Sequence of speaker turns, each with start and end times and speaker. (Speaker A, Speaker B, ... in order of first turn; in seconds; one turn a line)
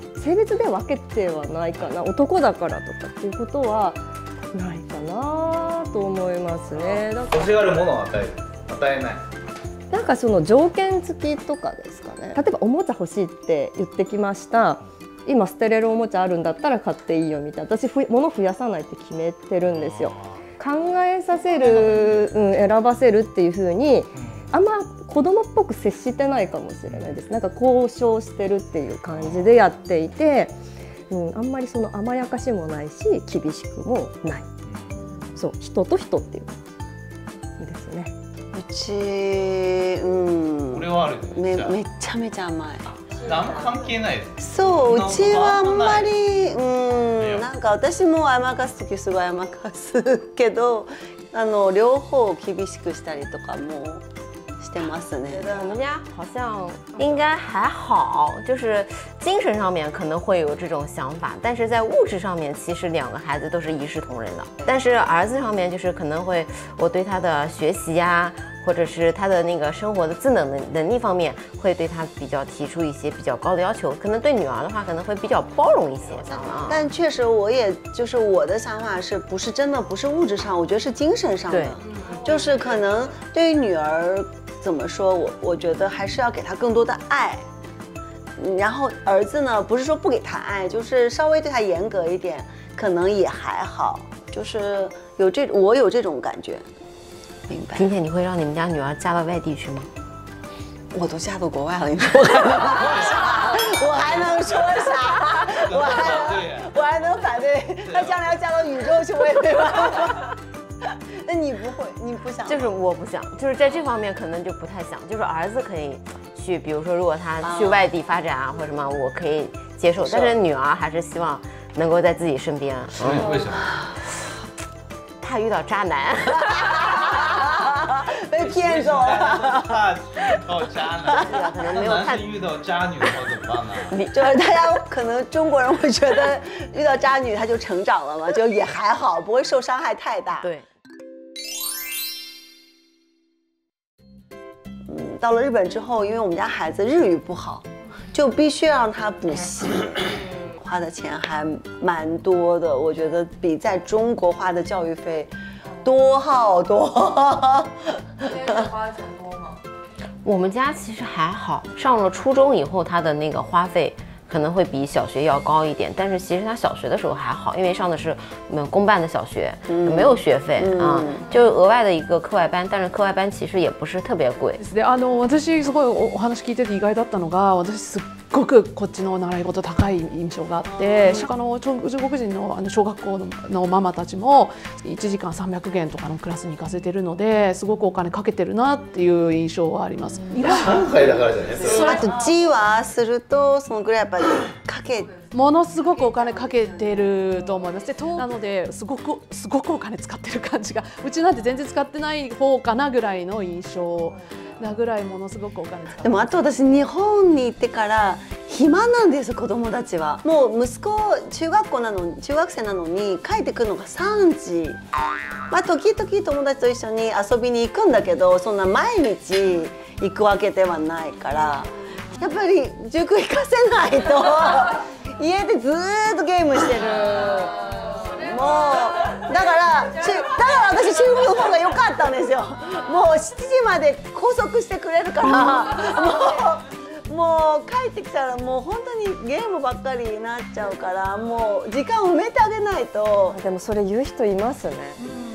Speaker A: 0.2-4.0
Speaker A: 4.5-7.5
Speaker B: 7.0-9.2
Speaker A: 9.9-30.6
Speaker B: 19.7-20.1
Speaker B: 21.7-22.2
Speaker B: 26.9-27.1
Speaker B: 29.1-29.5
Speaker A: 31.1-34.5
Speaker A: 35.4-36.6
Speaker A: 37.6-38.1
Speaker C: 38.5-42.9
Speaker B: 40.7-41.8
Speaker B: 43.1-46.1
Speaker C: 44.4-54.0
Speaker B: 47.2-47.5
Speaker C: 54.6-55.8
Speaker D: 55.4-76.8
Speaker C: 76.2-87.4
Speaker D: 81.5-81.8
Speaker C: 88.4-96.6
Speaker C: 97.5-97.9
Speaker D: 97.8-99.9
Speaker C: 100.9-110.3
Speaker B: 102.7-103.2
Speaker B: 105.5-106.7
Speaker B: 107.9-108.2
Speaker C: 111.2-112.7
Speaker D: 112.5-123.2
Speaker C: 117.4-117.8
Speaker C: 120.0-120.3
Speaker B: 123.0-123.7
Speaker C: 123.5-123.9
Speaker D: 125.2-127.3
Speaker C: 126.8-129.8
Speaker B: 128.4-134.0
Speaker C: 131.1-131.4
Speaker D: 131.1-132.3
Speaker D: 133.9-134.3
Speaker C: 134.1-140.5
Speaker D: 140.4-140.7
Speaker C: 144.9-158.8
Speaker D: 160.2-174.6
Speaker C: 169.7-171.2
Speaker E: 174.6-190.9
Speaker B: 190.4-191.9
Speaker C: 191.6-195.2
Speaker E: 195.2-206.5
Speaker C: 206.0-214.8
Speaker C: 215.5-243.4
Speaker A: 243.3-245.0